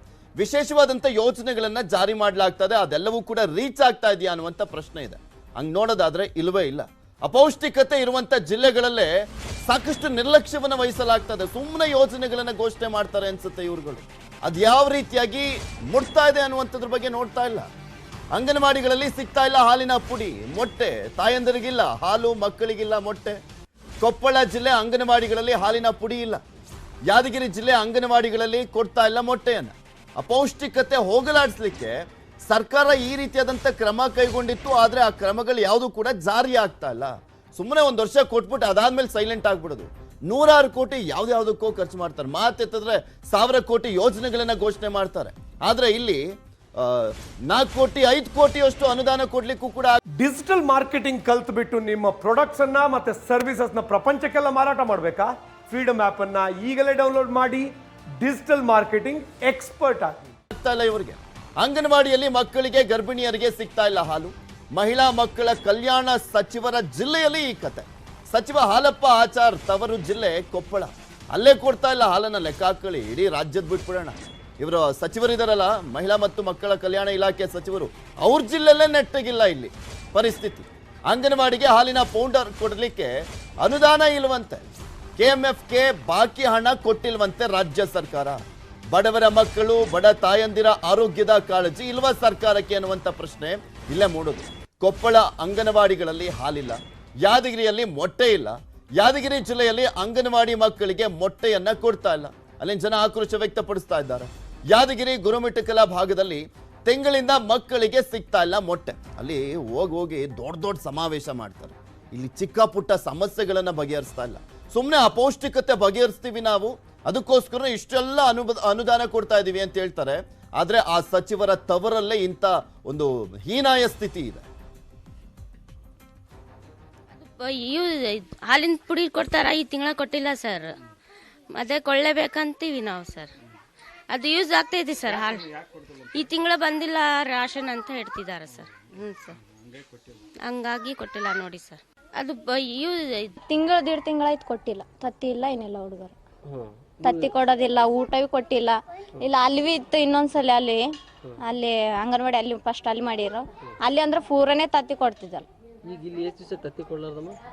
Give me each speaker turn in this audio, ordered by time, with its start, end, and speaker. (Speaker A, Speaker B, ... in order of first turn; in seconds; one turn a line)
Speaker A: 0.4-9.1
Speaker A: 9.7-17.7
Speaker A: 18.3-23.4
Speaker A: 24.0-26.4
Speaker A: 27.1-46.2
Speaker A: 46.8-50.0
Speaker B: 50.2-60.2
Speaker A: 60.5-84.6
Speaker A: 85.2-124.5
Speaker C: 127.1-130.7
Speaker C: 131.5-133.3
Speaker C: 134.1-139.4
Speaker C: 140.4-143.3
Speaker D: 143.5-146.2
Speaker E: 146.5-147.3
Speaker D: 147.0-150.9
Speaker D: 151.4-155.5
Speaker E: 155.9-157.4